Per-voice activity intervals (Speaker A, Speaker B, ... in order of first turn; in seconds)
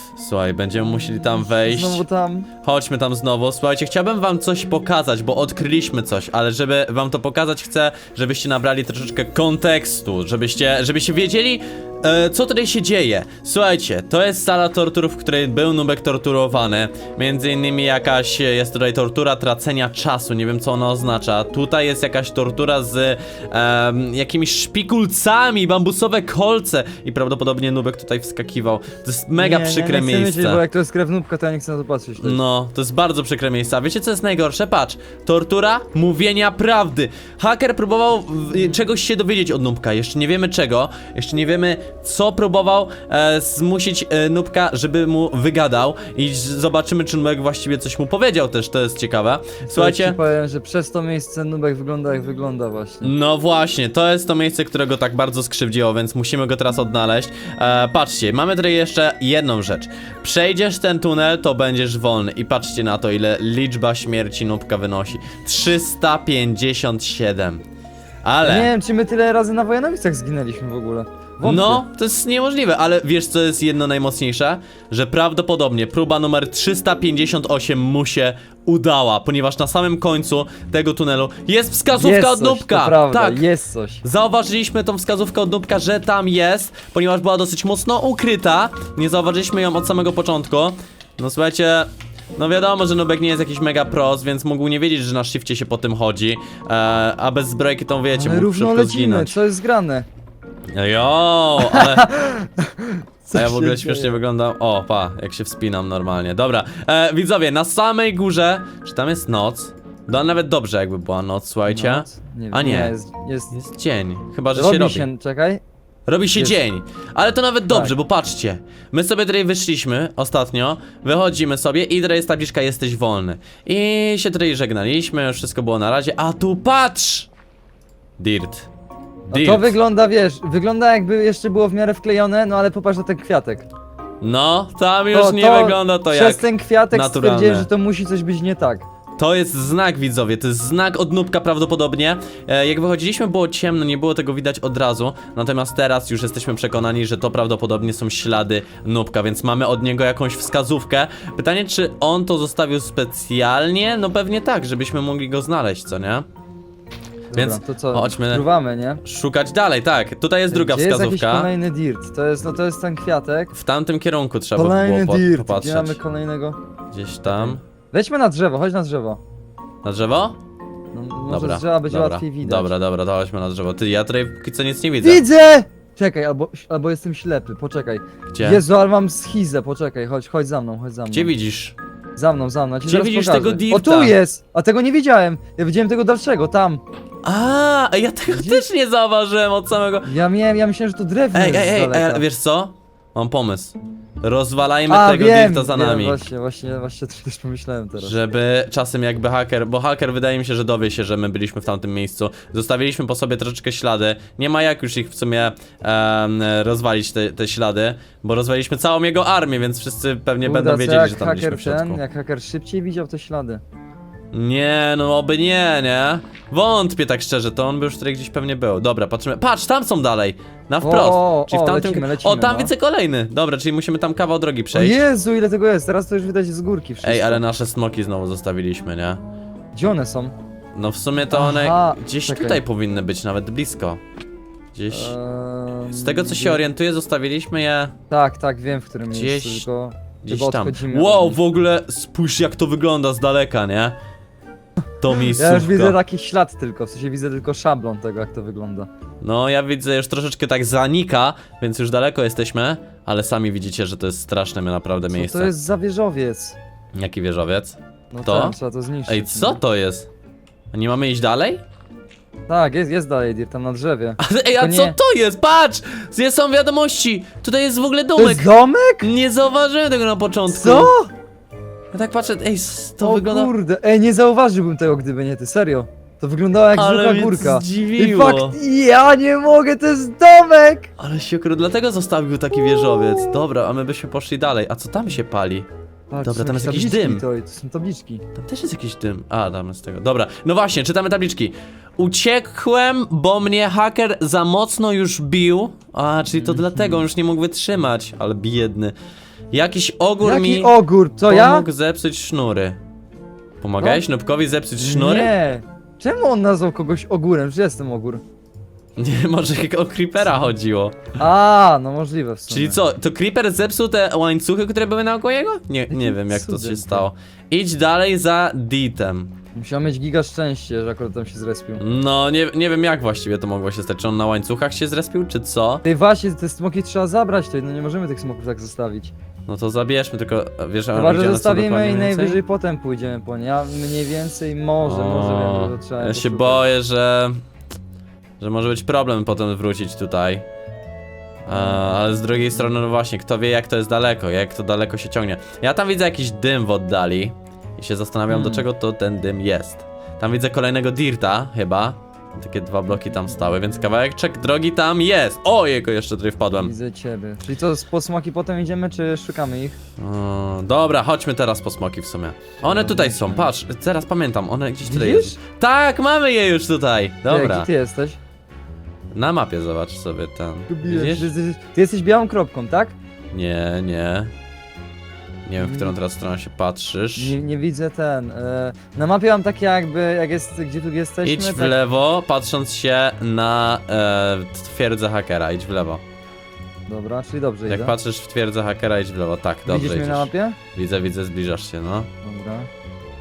Speaker A: 0.2-2.0, 2.6-30.6, 32.2-50.2, 53.0-67.6, 68.2-68.7, 71.4-83.4, 84.0-99.4, 100.8-102.1, 103.3-112.9, 113.5-115.1, 116.1-127.3, 128.2-128.7, 129.3-129.7, 134.2-137.7, 139.2-156.3, 157.3-158.4, 159.0-161.5, 163.5-166.0, 166.9-167.6, 169.8-170.4, 171.3-175.2, 178.3-178.6, 181.1-181.8, 182.8-184.2, 187.2-190.1, 191.3-196.2, 198.0-212.0, 214.3-225.0, 227.0-229.2, 230.8-234.0, 234.7-235.1, 235.9-237.9, 239.1-239.7, 240.2-244.0, 245.0-246.0, 249.2-255.5, 257.0-258.6, 259.1-260.1, 260.7-261.6, 264.2-268.5, 269.0-270.9, 271.9-273.5, 276.8-278.6, 281.0-285.7, 286.2-287.2, 288.4-298.9, 299.5-300.8, 301.3-302.8, 303.6-305.3, 309.0-311.0, 312.5-319.3, 321.8-325.8, 329.5-332.4, 334.8-337.4, 338.4-340.4, 341.5-356.7, 360.0-367.7, 369.1-371.3, 373.3-374.3, 375.5-377.4, 381.2-386.0, 387.7-392.1
Speaker B: 0.8-2.5, 29.4-32.4, 49.7-53.1, 68.4-71.8, 81.9-84.0, 98.1-100.1, 101.6-104.2, 111.7-113.5, 114.5-115.6, 117.7-118.0, 129.3-133.7, 135.1-138.9, 157.3-159.0, 160.5-163.5, 164.6-166.6, 167.3-169.2, 170.9-172.7, 175.0-181.3, 182.2-186.8, 188.3-188.7, 190.1-192.2, 194.9-198.3, 210.4-213.6, 220.8-222.7, 224.7-227.4, 229.8-230.3, 231.3-232.6, 234.9-236.6, 238.1-241.4, 245.2-248.9, 255.1-256.6, 258.1-259.6, 262.5-265.0, 268.2-269.1, 270.5-271.1, 273.0-280.9, 282.6-283.4, 286.1-288.2, 296.4-297.0, 300.2-301.7, 304.8-308.2, 311.2-312.8, 315.9-317.1, 319.6-321.8, 325.8-329.1, 330.9-336.7, 341.5-341.9, 348.3-348.7, 356.5-359.8, 362.6-363.5, 364.8-365.4, 367.3-368.2, 370.7-373.0, 375.6-376.0, 377.2-381.8, 386.9-387.9, 389.7-390.6, 392.2-392.7